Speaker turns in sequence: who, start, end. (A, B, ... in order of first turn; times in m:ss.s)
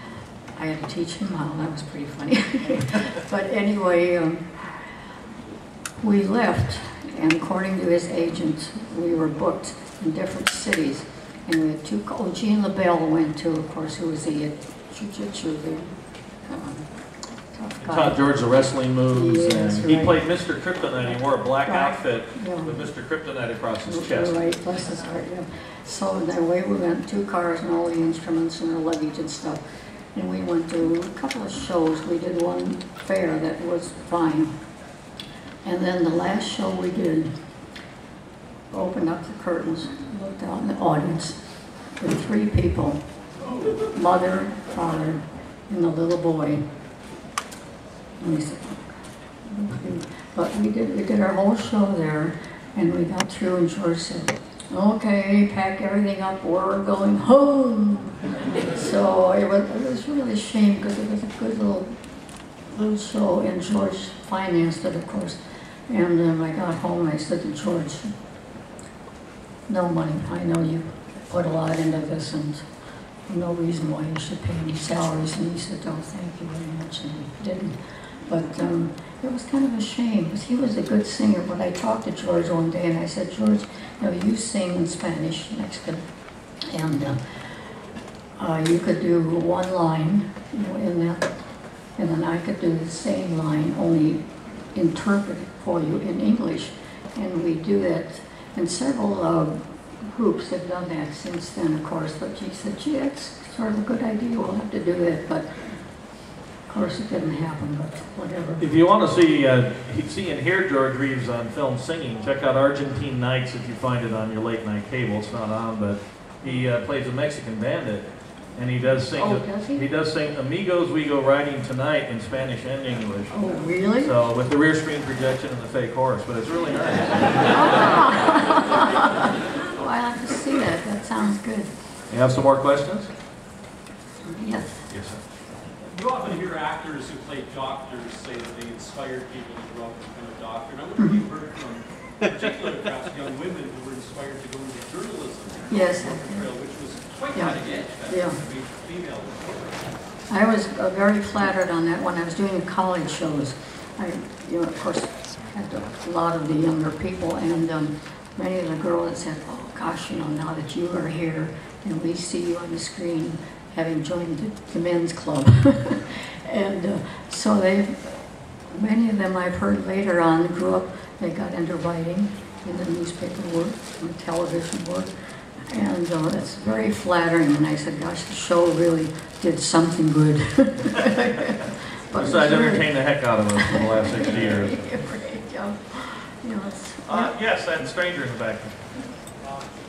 0:00.5-0:04.6 A
0:06.0-0:16.0 A
0:16.5-0:16.9 A
0:17.5-0:18.2 A
0:17.8-0:24.4 B
0:19.1-0:20.2 A
0:21.6-0:22.8 A
0:23.9-0:29.6 A
0:30.1-0:34.6 A
0:35.6-0:37.3 A
0:38.7-0:41.4 A
0:42.0-0:43.0 A
0:43.8-0:46.7 A
0:48.2-1:02.0 A
1:02.7-1:08.1 A
1:09.7-1:12.6 A
1:13.3-1:26.0 A
1:26.6-1:27.5 A
1:28.4-1:31.3 A
1:32.0-1:34.2 A
1:34.7-1:45.5 A
1:46.7-1:48.6 A
1:48.6-2:08.0 B
1:59.2-1:59.8 A
2:03.3-2:04.1 A
2:07.5-2:11.7 A
2:12.1-2:13.1 B
2:14.3-2:14.8 A
2:14.9-2:15.2 B
2:15.8-2:29.8 C
2:25.7-2:26.5 A
2:27.3-2:28.4 A
2:30.3-2:55.1 A
2:55.7-3:02.9 A
3:02.2-3:04.8 B
3:03.6-3:07.3 A
3:07.0-3:08.8 B